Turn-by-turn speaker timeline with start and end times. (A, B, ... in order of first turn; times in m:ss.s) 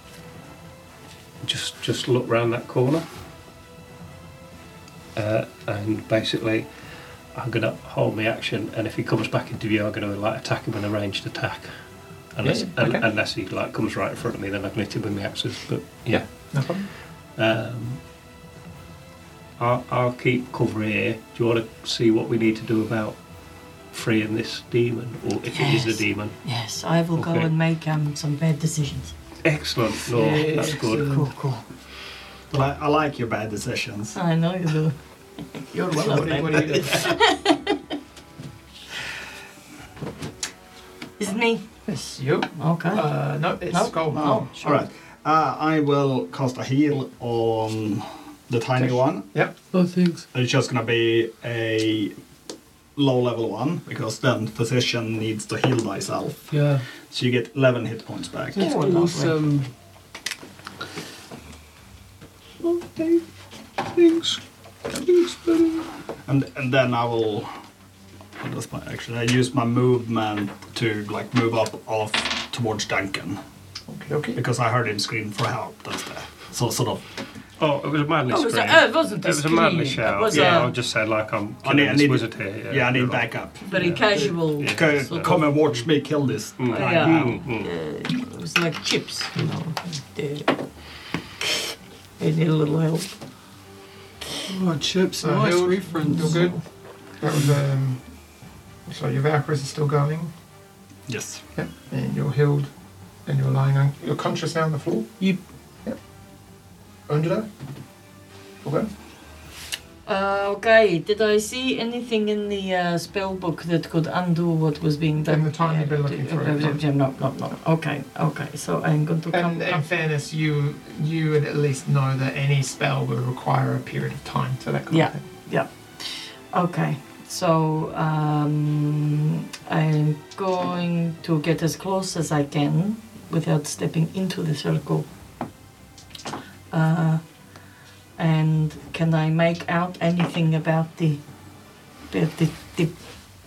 0:01.4-0:03.0 A
0:05.2-0:06.7 A
0:07.3-0:11.7 A
0:12.3-0:18.0 A
0:12.4-0:13.0 B
0:16.3-0:16.9 B
0:19.6-0:23.2 A
0:23.9-0:26.4 A
0:25.5-0:29.1 C
0:27.2-0:27.5 A
0:29.4-0:31.2 A
0:30.1-0:31.3 D
0:30.5-0:31.6 C
0:32.5-0:34.2 E
0:34.1-0:35.0 C
0:35.5-0:37.8 C
0:35.9-0:37.2 B
0:41.2-0:41.6 C
0:41.8-0:44.4 B
0:42.6-0:43.1 C
0:43.7-0:44.8 C
0:44.1-0:49.3 E
0:49.7-0:50.2 D
0:50.3-0:52.1 E
0:53.0-0:56.5 E
0:56.5-0:56.8 D
0:57.0-0:58.8 E
0:58.5-0:59.7 D
0:58.6-0:59.4 C
1:02.6-1:03.2 D
1:03.8-1:05.9 D
1:06.2-1:07.5 E
1:08.4-1:13.4 E
1:13.9-1:14.4 B
1:14.3-1:17.0 E
1:17.6-1:25.8 A
1:18.3-1:20.7 C
1:20.3-1:20.6 E
1:21.6-1:27.4 E
1:23.7-1:25.5 C
1:26.6-1:27.7 A
1:26.7-1:30.6 C
1:32.2-1:33.1 C
1:34.5-1:36.5 D
1:35.2-1:36.6 B
1:36.0-1:36.6 C
1:37.2-1:38.0 B
1:38.9-1:40.3 B
1:41.1-1:41.4 E
1:41.5-1:42.7 B
1:43.2-1:45.2 B
1:47.1-1:47.5 B
1:48.6-1:48.9 B
1:50.1-1:59.8 C
1:55.3-1:56.8 B
1:59.3-2:05.2 B
2:04.9-2:15.1 C
2:16.7-2:17.2 C
2:18.2-2:21.2 C
2:22.1-2:22.9 C